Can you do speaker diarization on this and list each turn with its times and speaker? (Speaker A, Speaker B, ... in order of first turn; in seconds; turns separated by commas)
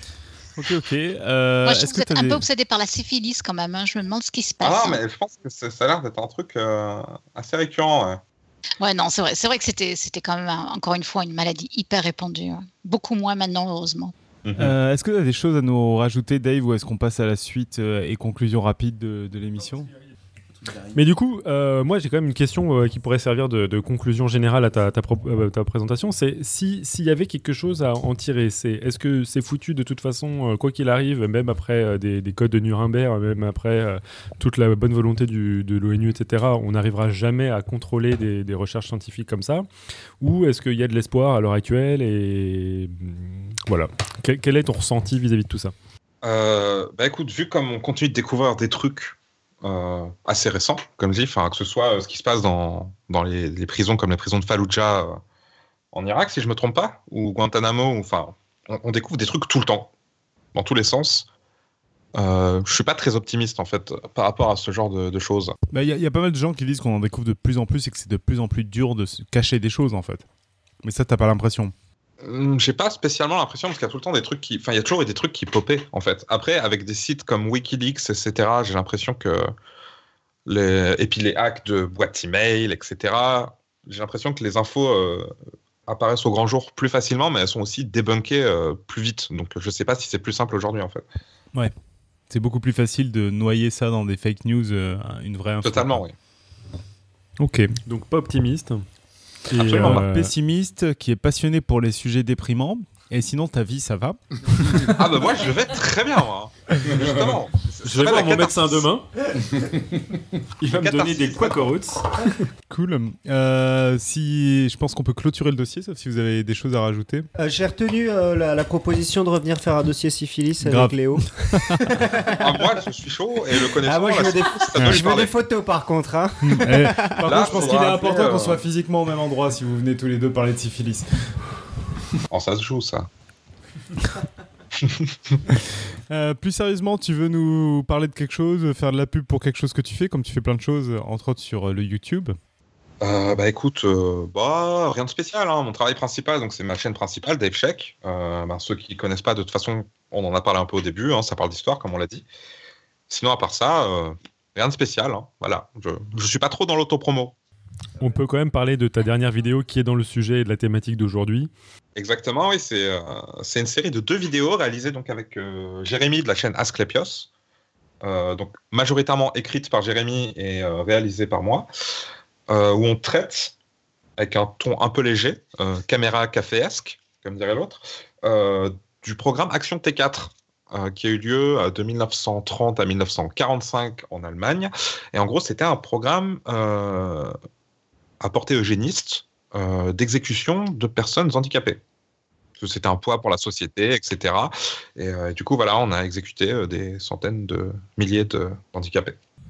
Speaker A: 0.6-2.4, Speaker B: 1.7-5.0, Speaker C: 4.6-8.2, Speaker B: 8.8-14.1, Speaker C: 14.4-14.7, Speaker A: 14.6-19.9, Speaker D: 20.9-39.7, Speaker D: 40.2-45.7, Speaker C: 46.2-55.2, Speaker C: 55.9-59.9, Speaker C: 60.5-61.3, Speaker C: 62.1-65.5, Speaker A: 65.7-70.2, Speaker A: 70.8-71.7, Speaker C: 72.2-79.5, Speaker C: 80.5-85.3, Speaker C: 85.9-91.1, Speaker A: 92.3-96.0, Speaker C: 95.6-96.1, Speaker A: 97.4-97.7, Speaker D: 97.8-98.8, Speaker D: 99.5-100.3, Speaker C: 99.5-100.0, Speaker A: 99.6-105.0, Speaker C: 104.9-108.9, Speaker D: 107.8-109.1, Speaker D: 110.6-112.4, Speaker C: 110.7-111.7, Speaker A: 112.7-117.3, Speaker E: 117.4-122.4, Speaker A: 120.6-121.9, Speaker C: 122.3-125.3, Speaker E: 123.8-127.5, Speaker A: 126.4-131.2, Speaker C: 127.2-128.6, Speaker C: 132.3-133.1, Speaker C: 134.8-135.4, Speaker A: 136.1-142.4, Speaker C: 143.0-152.2, Speaker C: 153.1-157.4, Speaker D: 158.0-161.5, Speaker C: 161.9-167.3, Speaker C: 168.0-171.7, Speaker C: 172.5-173.6, Speaker C: 174.2-187.3, Speaker C: 188.2-191.8, Speaker C: 192.6-199.2